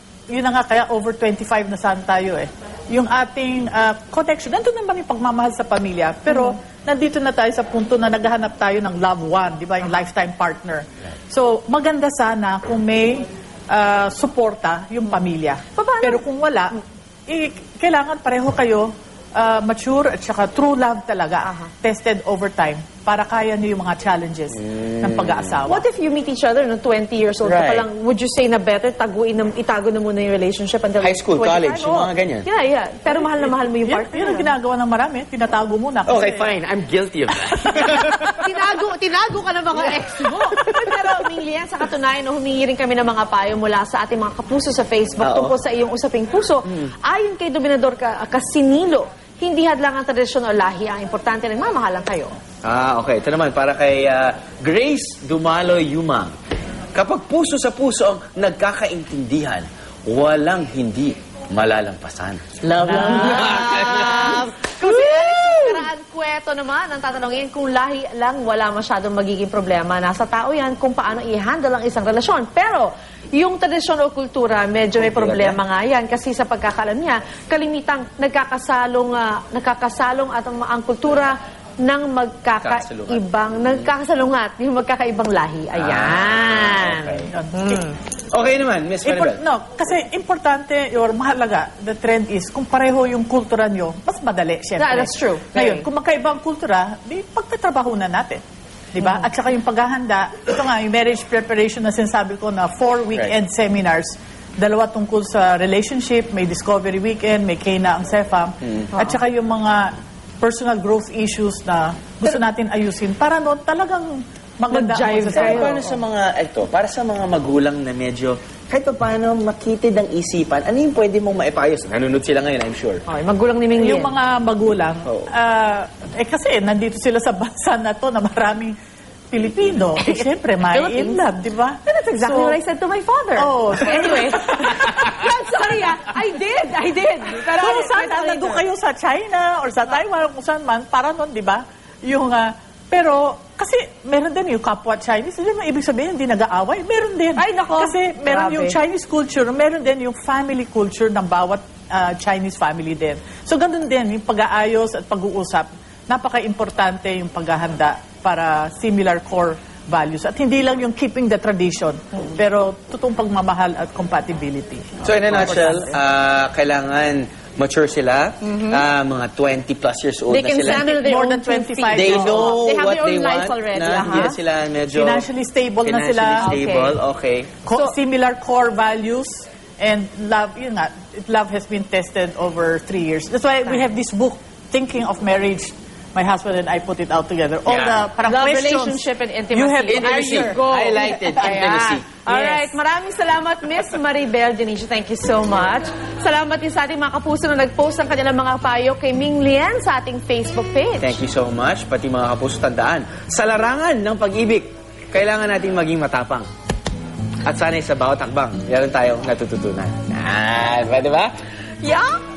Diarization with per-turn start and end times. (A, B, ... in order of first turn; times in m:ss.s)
0:00.3-0:16.8 A
0:15.7-0:16.2 B
0:17.3-0:25.8 A
0:21.4-0:21.7 B
0:24.6-0:25.6 C
0:25.6-0:34.5 B
0:27.4-0:27.9 C
0:31.0-0:32.5 C
0:33.1-0:36.5 A
0:36.1-0:38.2 C
0:37.6-0:38.3 A
0:38.2-0:52.3 B
0:45.2-0:45.6 C
0:52.6-0:56.3 C
0:56.9-1:05.7 C
1:02.8-1:28.0 B
1:02.9-1:03.5 A
1:15.0-1:15.6 C
1:22.6-1:23.8 C
1:25.8-1:27.2 C
1:27.3-1:27.8 A
1:28.3-1:29.4 C
1:29.0-1:38.4 A
1:34.8-1:35.8 B
1:38.9-1:55.8 A
1:54.7-1:56.0 B
1:55.3-2:03.0 C
2:03.1-2:04.1 B
2:03.8-2:08.8 A
2:09.3-2:12.5 A
2:10.0-2:11.2 B
2:11.8-2:18.6 B
2:13.4-2:15.1 A
2:17.6-2:46.0 A
2:27.4-2:28.8 B
2:45.0-2:50.8 C
2:48.4-2:48.8 B
2:50.3-2:54.4 B
2:50.7-2:52.5 A
2:51.9-2:55.2 C
2:54.0-2:54.3 A
2:54.9-2:56.6 A
2:55.8-2:57.6 C
2:56.4-2:57.0 B
2:57.6-3:10.6 A
2:57.7-2:57.9 B
3:07.7-3:08.0 C
3:08.2-3:21.2 B
3:09.9-3:12.1 C
3:12.3-3:12.8 A
3:21.0-3:26.5 C
3:27.4-3:31.3 C
3:31.8-3:32.2 B